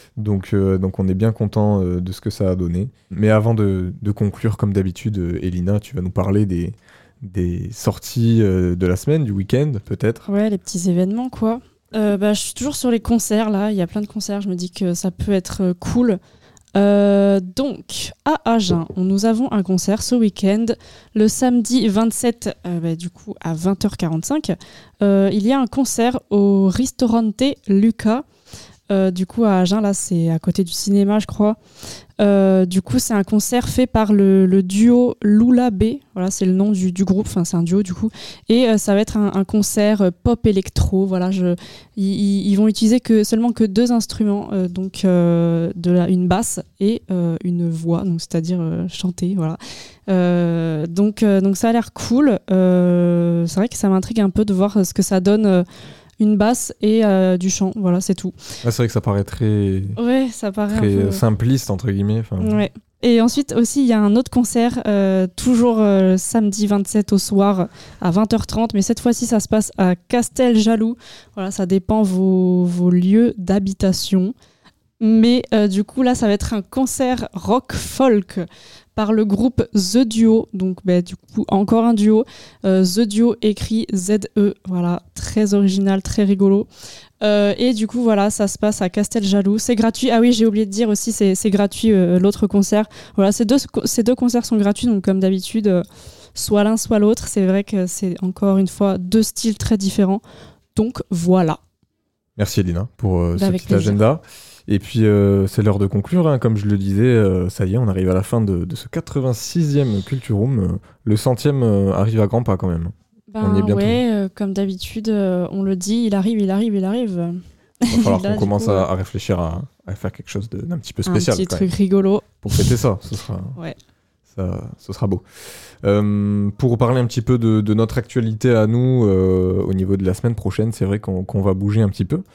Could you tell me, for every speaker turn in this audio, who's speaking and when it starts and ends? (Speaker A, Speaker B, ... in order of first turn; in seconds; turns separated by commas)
Speaker A: 0.2-10.2, Speaker B: 10.3-16.2, Speaker B: 16.8-28.3, Speaker B: 28.9-31.6, Speaker B: 32.2-55.6, Speaker B: 56.2-58.4, Speaker A: 58.6-60.0, Speaker B: 60.0-61.2, Speaker A: 60.7-62.6, Speaker B: 62.4-74.3, Speaker B: 75.0-78.5, Speaker B: 79.0-86.7, Speaker B: 87.2-95.8, Speaker B: 96.4-100.2, Speaker B: 100.8-101.6, Speaker A: 102.4-114.0, Speaker B: 103.4-104.0, Speaker B: 113.3-118.9, Speaker A: 117.9-121.7, Speaker B: 121.1-122.7, Speaker A: 122.4-123.6, Speaker A: 124.3-125.2, Speaker A: 125.8-132.2